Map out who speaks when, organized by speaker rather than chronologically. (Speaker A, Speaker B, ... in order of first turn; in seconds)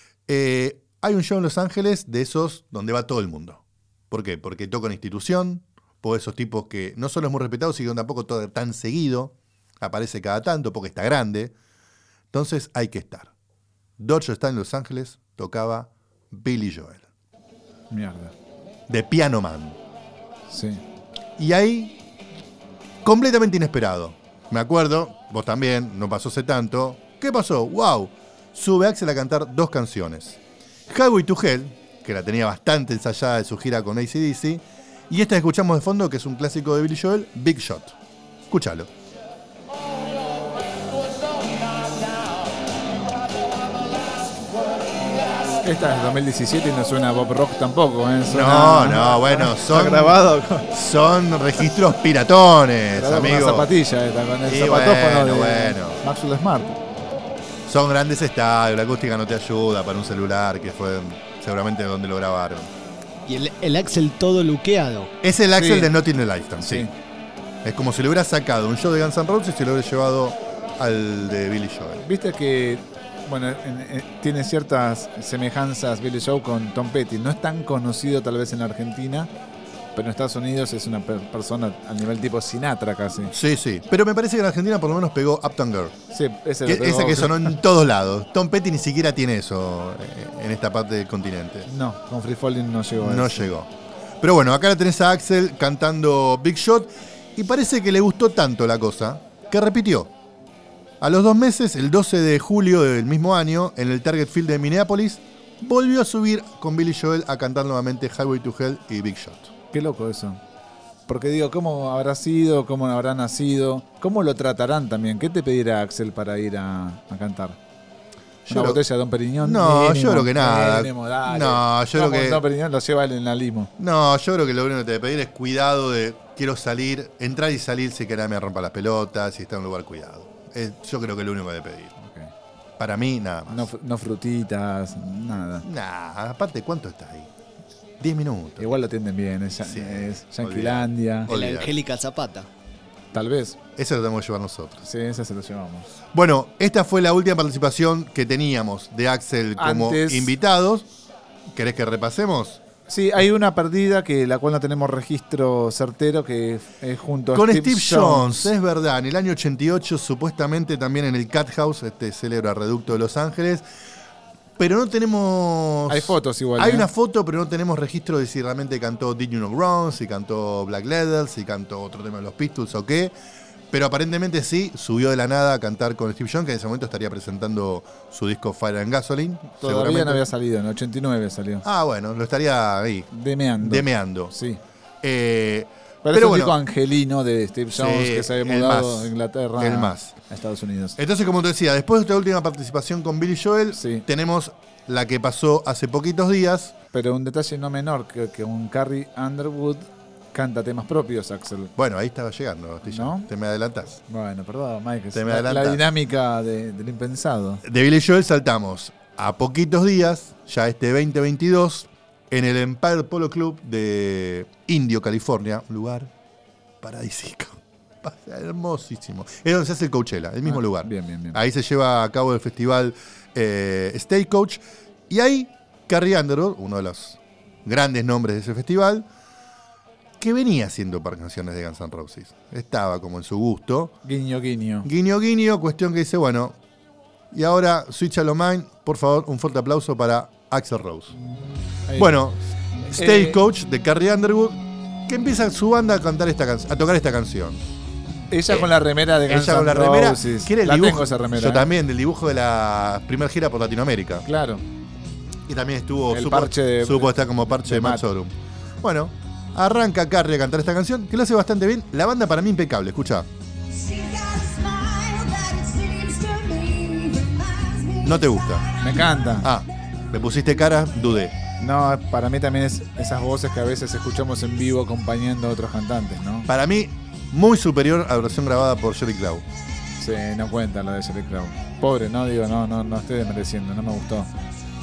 Speaker A: 0.3-11.5, 12.3-13.3, 14.0-17.1, 18.9-19.8, 21.4-22.0, 23.0-37.9, 38.5-38.9, 48.3-50.2, 50.7-53.7, 54.5-56.0, 57.6-62.7, 65.2-66.9, 67.6-72.0, 83.3-85.9, 86.6-91.7, 93.0-100.1, 101.0-109.5, 118.5-118.8, 119.4-122.4, 123.8-131.9, 132.8-133.7, 135.6-137.3, 138.0-138.7, 139.6-141.7, 143.8-144.8, 146.1-150.9, 151.5-152.6, 157.3-163.6, 164.6-173.1, 173.7-180.2, 181.6-184.3, 185.0-186.6, 187.7-190.1, 191.0-196.7, 201.8-204.0, 205.1-205.8, 207.6-216.1, 216.8-229.1, 230.2-233.9, 234.8-236.6, 237.3-241.2, 241.9-242.3, 242.9-247.7, 249.3-254.2, 255.5-263.3, 268.0-268.6, 269.4-271.4, 276.5-279.4
Speaker B: 17.9-18.3, 20.5-20.8, 45.6-50.7, 52.9-56.8, 65.6-65.9, 66.6-66.9, 72.0-79.3, 79.9-83.3, 86.1-87.5, 91.7-93.5, 109.7-110.4, 111.1-117.6, 118.5-123.7, 132.0-132.3, 133.5-135.7, 138.6-141.3, 143.1-143.6, 144.8-145.9, 149.6-150.3, 152.9-158.5, 165.9-166.9, 179.6-181.6, 183.1-184.6, 186.0-191.0, 193.7-194.0, 196.9-201.7, 202.9-203.3, 204.1-207.6, 220.4-221.4, 234.0-234.9, 241.9-242.1, 242.8-243.4, 248.3-251.7, 254.2-254.6, 256.1-258.0, 268.8-269.5, 271.6-276.5, 280.0-284.3
Speaker C: 63.2-65.1, 141.3-142.5, 263.7-268.3